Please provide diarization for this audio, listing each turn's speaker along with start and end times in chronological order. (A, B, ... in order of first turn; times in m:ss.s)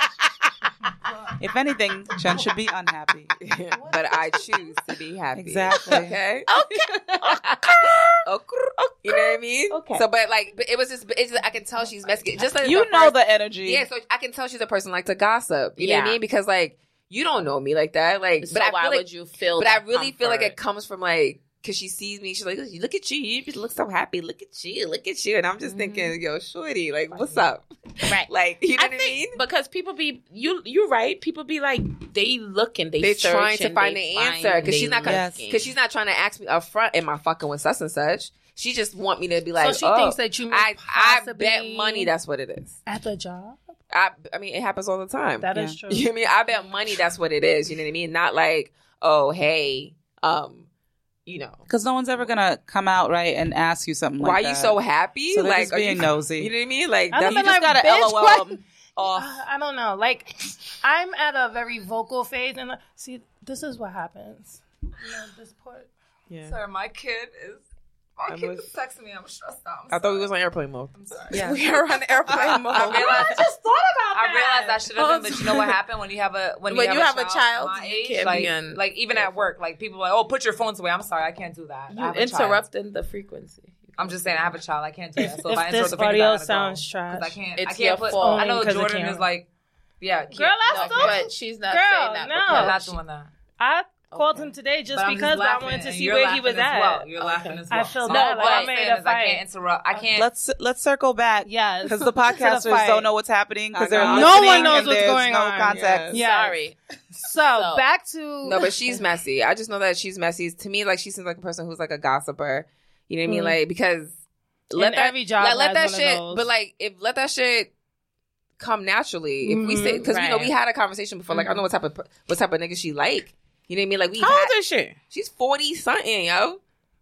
0:01.4-0:03.3 A
0:03.4-0:06.5 B
0:03.7-0:04.7 C
0:05.4-0:06.2 A
0:05.9-0:08.2 D
0:08.2-0:29.4 B
0:09.1-0:10.0 D
0:12.6-0:13.9 A
0:15.8-0:16.2 D
0:18.4-0:20.6 D
0:25.6-0:26.2 D
0:27.1-0:27.4 D
0:28.0-0:35.7 D
0:33.0-0:42.8 B
0:35.0-0:35.5 A
0:39.6-0:42.1 C
0:42.9-0:43.6 C
0:43.9-0:50.7 B
0:45.4-0:46.1 C
0:45.5-0:45.8 A
0:51.3-0:51.6 B
0:51.7-0:54.8 A
0:54.2-0:57.6 B
0:55.3-0:56.5 A
0:57.1-1:05.9 C
0:57.2-0:58.6 A
1:06.3-1:06.6 B
1:06.4-1:07.6 E
1:08.2-1:10.3 E
1:08.3-1:08.7 B
1:09.9-1:13.2 B
1:10.9-1:11.5 E
1:11.3-1:13.2 D
1:12.3-1:13.1 A
1:12.8-1:13.5 E
1:13.1-1:14.9 C
1:14.1-1:22.6 E
1:16.7-1:19.4 D
1:21.9-1:24.6 D
1:24.0-1:29.5 E
1:25.4-1:27.4 C
1:27.6-1:28.5 D
1:28.2-1:29.2 C
1:30.0-1:31.3 E
1:30.3-1:32.8 C
1:30.7-1:32.9 D
1:32.5-1:33.3 E
1:33.6-1:39.4 C
1:34.1-1:34.5 D
1:34.9-1:40.3 E
1:38.1-1:38.7 D
1:40.2-1:46.2 A
1:41.4-1:43.1 C
1:43.7-1:45.1 B
1:44.0-1:46.6 C
1:45.7-1:46.2 B
1:46.1-1:46.8 D
1:47.2-1:49.0 C
1:47.5-1:47.9 D
1:48.4-1:54.1 B
1:53.3-1:53.6 C
1:54.7-1:57.7 B
1:54.7-1:56.5 C
1:58.6-2:04.5 B
1:59.4-2:00.1 C
2:00.1-2:00.5 D
2:04.2-2:05.0 D
2:05.1-2:06.6 B